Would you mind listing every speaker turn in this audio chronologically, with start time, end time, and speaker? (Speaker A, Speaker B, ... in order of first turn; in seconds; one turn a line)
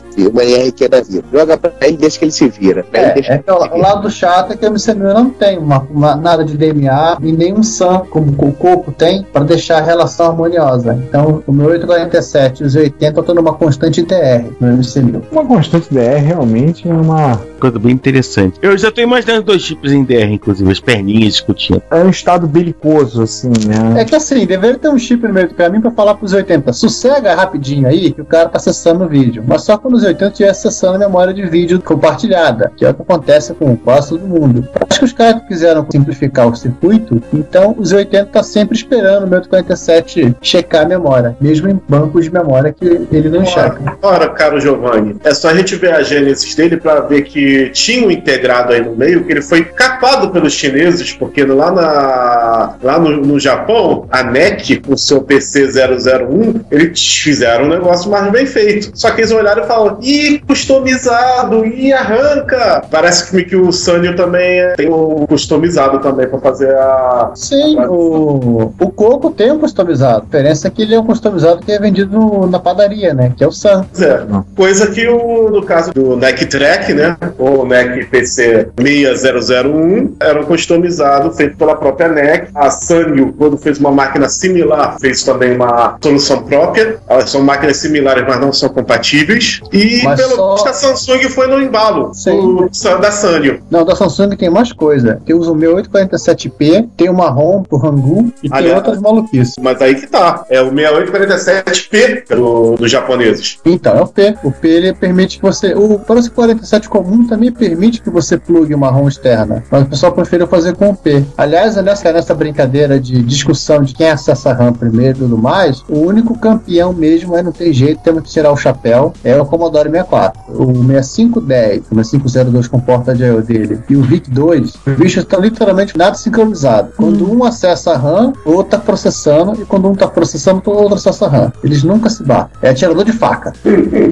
Speaker A: 0.1-3.9
Speaker B: 2.9-15.3
Speaker C: 15.3-17.4
Speaker D: 17.6-21.8
Speaker C: 21.9-24.1
Speaker B: 23.9-43.9
Speaker E: 43.4-68.2
Speaker B: 67.4-73.9
Speaker E: 73.9-93.6
Speaker B: 90.0-90.8
Speaker B: 92.2-92.7
Speaker B: 93.7-99.6
Speaker E: 98.5-99.0
Speaker E: 99.6-103.6
Speaker B: 103.6-133.6
Speaker E: 133.7-134.0